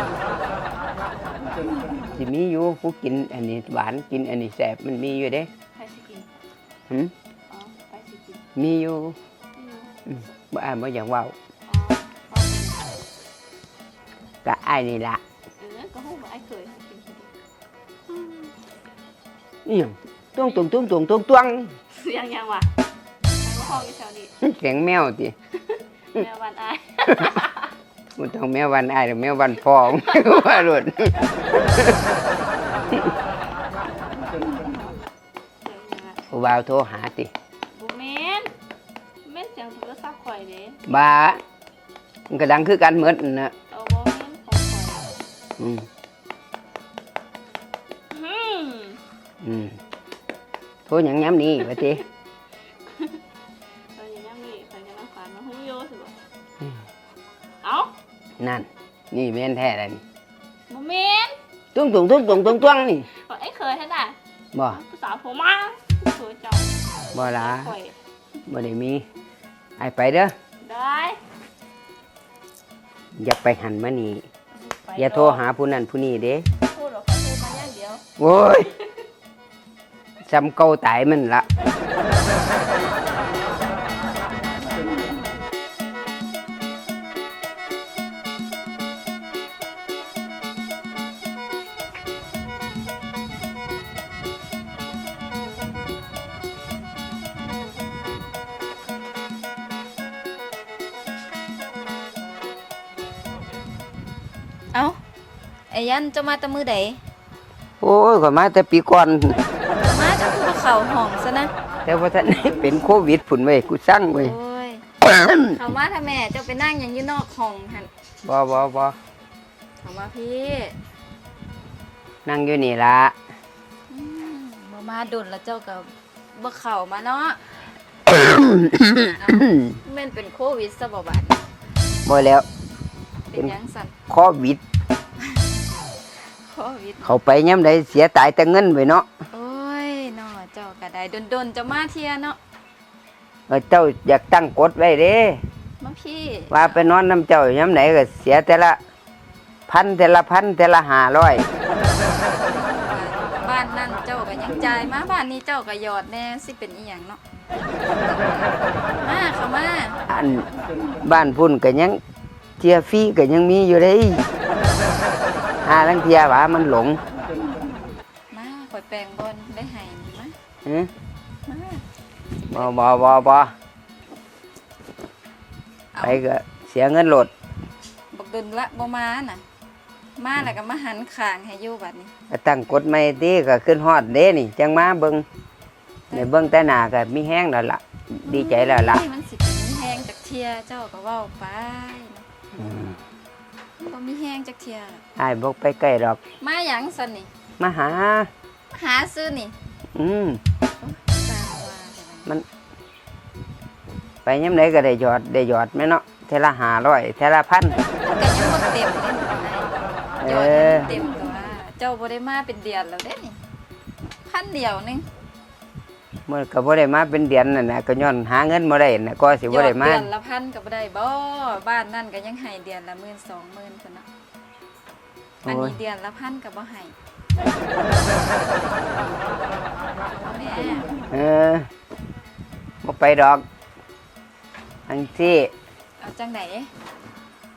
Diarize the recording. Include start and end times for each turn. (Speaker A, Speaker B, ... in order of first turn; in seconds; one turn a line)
Speaker A: 2.1-5.5
Speaker B: 5.8-6.3
Speaker B: 7.5-8.4
Speaker A: 8.6-9.2
Speaker B: 9.6-9.9
Speaker A: 10.1-11.3
Speaker B: 11.7-13.0
Speaker A: 14.4-15.2
Speaker B: 15.6-17.3
Speaker B: 18.1-18.5
Speaker A: 19.6-21.7
Speaker B: 21.9-22.7
Speaker B: 23.4-24.3
Speaker A: 24.4-25.3
Speaker B: 26.1-27.7
Speaker A: 28.1-32.1
Speaker B: 30.1-30.6
Speaker B: 34.4-35.0
Speaker B: 35.6-36.2
Speaker A: 36.3-37.3
Speaker B: 37.7-38.5
Speaker B: 39.2-40.8
Speaker A: 40.9-41.4
Speaker A: 42.3-43.5
Speaker B: 43.7-45.1
Speaker A: 45.6-45.9
Speaker B: 48.1-49.0
Speaker A: 49.4-49.8
Speaker A: 50.9-52.0
Speaker B: 53.9-56.1
Speaker B: 57.6-57.9
Speaker A: 58.4-60.0
Speaker B: 60.7-61.4
Speaker A: 61.7-63.1
Speaker B: 63.1-64.2
Speaker A: 64.5-64.8
Speaker B: 64.7-67.9
Speaker A: 67.1-67.7
Speaker A: 68.5-69.0
Speaker A: 69.8-70.3
Speaker B: 70.6-71.2
Speaker A: 73.2-74.2
Speaker B: 74.5-75.5
Speaker A: 75.0-76.4
Speaker B: 76.5-78.0
Speaker A: 78.2-78.7
Speaker A: 80.2-81.5
Speaker C: 104.7-105.0
Speaker C: 105.7-107.0
Speaker A: 107.8-109.4
Speaker C: 109.7-111.5
Speaker A: 111.8-114.3
Speaker C: 114.2-114.8
Speaker A: 115.0-115.4
Speaker C: 115.5-117.9
Speaker A: 118.2-119.0
Speaker C: 119.8-120.8
Speaker A: 122.2-123.1
Speaker C: 123.9-127.4
Speaker A: 128.1-129.8
Speaker C: 129.2-131.4
Speaker A: 132.0-132.4
Speaker C: 133.3-133.9
Speaker A: 134.1-134.6
Speaker C: 136.3-137.2
Speaker A: 137.0-139.1
Speaker C: 139.3-142.4
Speaker A: 143.5-145.4
Speaker C: 145.8-146.8
Speaker A: 146.5-148.8
Speaker A: 149.7-151.5
Speaker C: 152.2-157.2
Speaker C: 158.8-160.0
Speaker A: 160.1-160.4
Speaker A: 161.0-162.0
Speaker A: 162.6-164.3
Speaker A: 165.6-167.0
Speaker C: 168.3-170.3
Speaker A: 170.6-170.9
Speaker C: 171.4-171.8
Speaker C: 172.4-173.1
Speaker A: 172.5-173.5
Speaker C: 175.9-176.2
Speaker A: 176.0-177.3
Speaker C: 178.1-179.4
Speaker C: 180.2-182.1
Speaker A: 182.3-185.2
Speaker C: 186.1-186.4
Speaker A: 186.1-189.0
Speaker C: 188.2-192.2
Speaker A: 192.5-193.0
Speaker C: 193.8-195.0
Speaker A: 195.2-196.2
Speaker C: 196.4-197.3
Speaker A: 197.6-198.3
Speaker C: 198.7-199.5
Speaker A: 199.9-200.4
Speaker C: 200.8-202.3
Speaker A: 204.2-207.8
Speaker C: 208.0-213.4
Speaker A: 210.2-210.9
Speaker C: 214.2-215.1
Speaker A: 216.3-220.1
Speaker C: 219.5-224.1
Speaker A: 225.4-225.8
Speaker C: 225.4-226.9
Speaker C: 230.0-230.9
Speaker A: 231.1-231.7
Speaker A: 232.8-233.4
Speaker A: 234.9-235.5
Speaker C: 236.0-236.7